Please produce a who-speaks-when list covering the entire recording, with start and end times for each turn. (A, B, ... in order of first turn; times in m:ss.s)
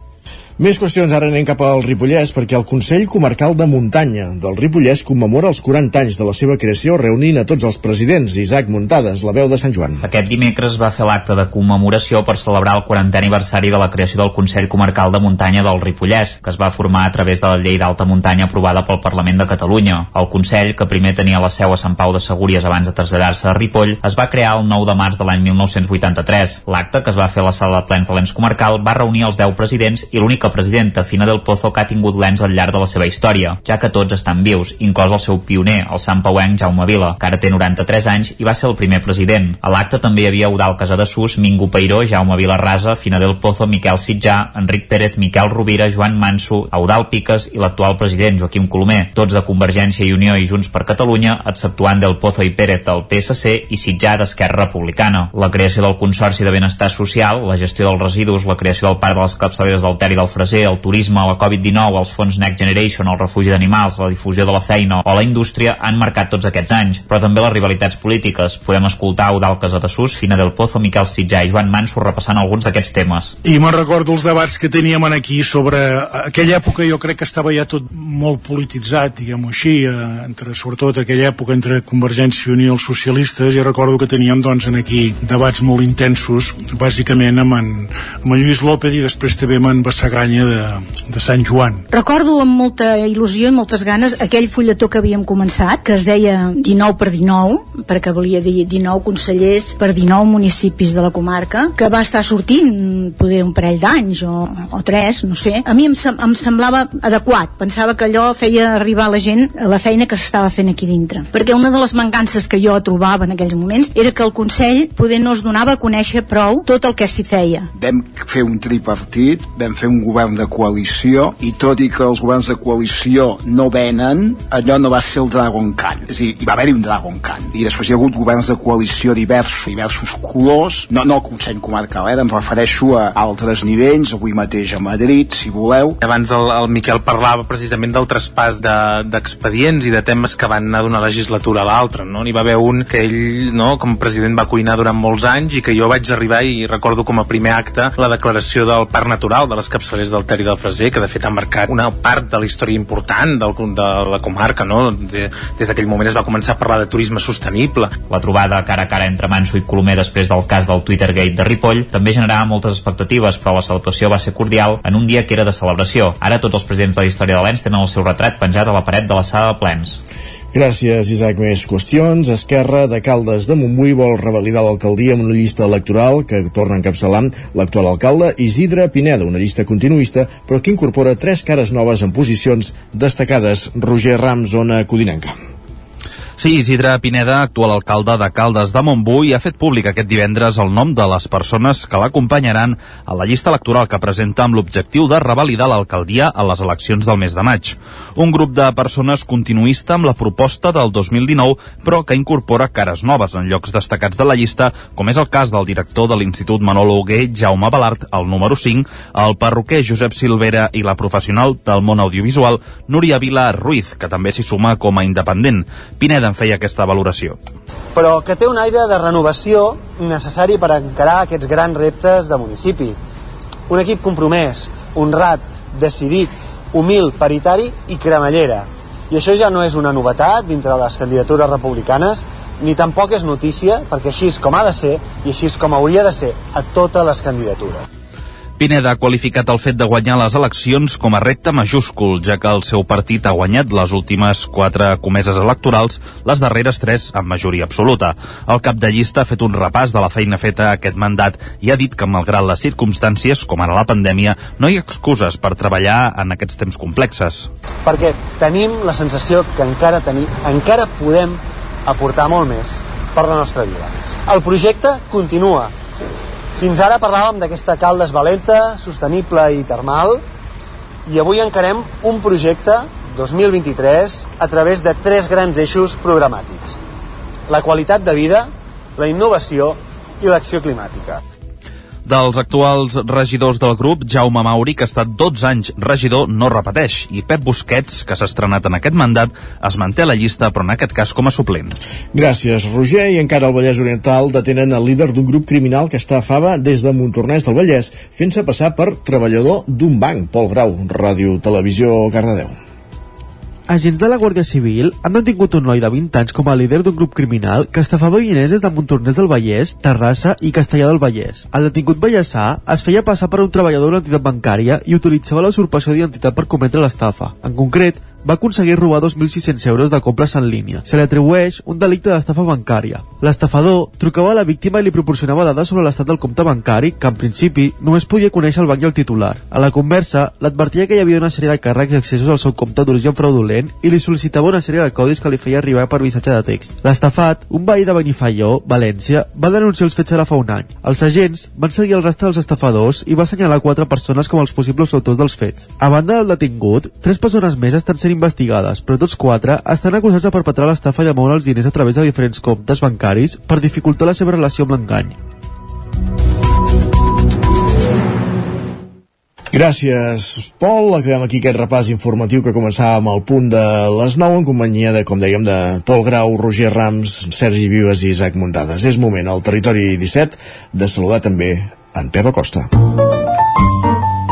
0:00.6-0:10.0 A
0:10.0-1:13.4 B
1:13.4-1:31.8 C
1:31.9-1:57.7 D
1:57.7-2:16.0 E
2:16.0-2:37.9 F
2:38.1-2:50.0 B
2:50.5-3:05.4 A
3:06.4-3:37.4 G
3:37.9-3:43.0 H
3:43.7-3:57.8 H
3:58.6-4:17.5 G
4:17.8-4:25.7 H
4:26.6-4:30.2 H
4:31.0-4:36.8 H
4:37.5-4:41.2 H
4:42.0-4:51.7 G
4:52.1-5:02.6 A
5:03.7-5:55.2 I
5:59.5-6:12.7 A